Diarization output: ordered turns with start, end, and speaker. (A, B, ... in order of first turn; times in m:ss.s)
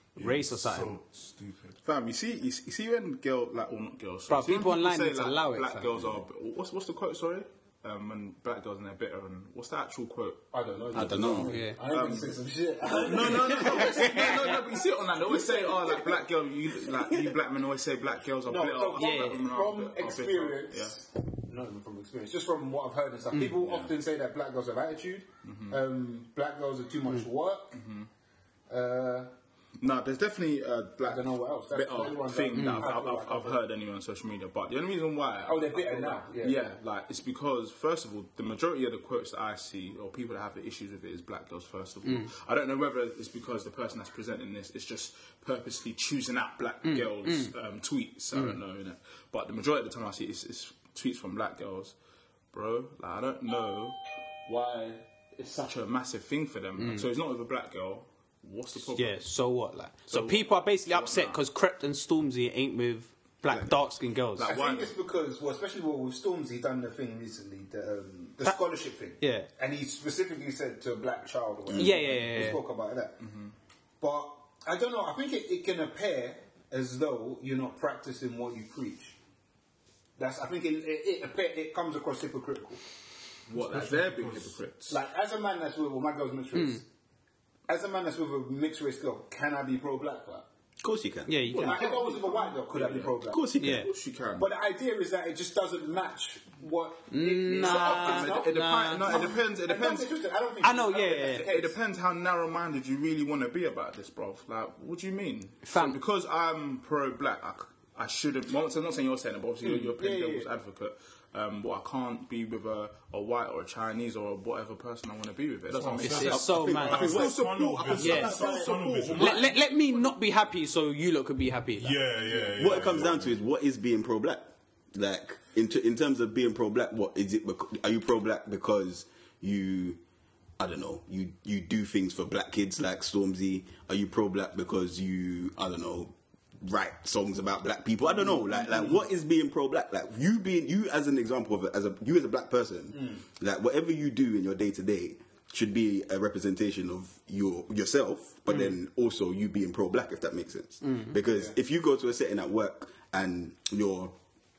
0:00.2-0:00.9 A
0:00.2-0:01.8 B
0:01.8-0:21.0 C
0:04.3-0:05.9 A
0:10.5-0:16.1 D
0:10.9-0:11.6 E
0:11.5-0:11.8 A
0:13.6-0:14.4 A
0:18.4-0:27.8 D
0:19.0-0:19.4 A
0:23.4-0:23.9 C
0:25.4-0:25.8 C
0:27.7-0:28.1 C
0:28.7-0:29.3 D
0:29.8-0:51.9 C
0:31.1-0:33.6 D
0:32.5-0:32.9 A
0:35.4-0:36.6 D
0:42.0-0:42.3 A
0:46.8-0:47.5 A
0:52.5-0:59.2 C
0:56.8-0:57.0 A
0:58.9-1:04.5 A
1:00.1-1:01.4 C
1:04.4-1:04.9 C
1:04.4-1:13.2 D
1:09.2-1:09.5 A
1:11.7-1:12.6 A
1:13.2-1:13.5 C
1:14.0-1:19.2 D
1:20.2-1:22.8 D
1:23.5-1:25.0 C
1:23.5-1:24.6 B
1:24.9-1:26.8 D
1:26.5-1:26.8 A
1:27.7-1:30.4 D
1:30.8-1:31.5 E
1:31.3-1:31.8 A
1:31.5-1:34.5 C
1:31.6-1:33.4 D
1:33.3-1:33.9 E
1:33.6-1:33.9 A
1:34.4-1:41.8 D
1:37.1-1:39.3 A
1:37.5-1:40.1 C
1:40.6-1:41.5 A
1:41.3-1:59.6 C
1:45.6-1:46.0 A
1:49.6-1:50.5 D
1:55.7-1:59.5 B
1:56.0-1:57.2 A
1:56.2-1:57.5 E
1:57.9-1:58.4 A
1:58.1-1:58.8 D
1:59.1-2:02.0 A
2:01.8-2:03.3 B
2:02.5-2:10.0 E
2:10.6-2:34.1 E
2:18.2-2:19.0 D
2:22.9-2:23.2 D
2:30.8-2:31.2 A
2:31.2-2:31.5 D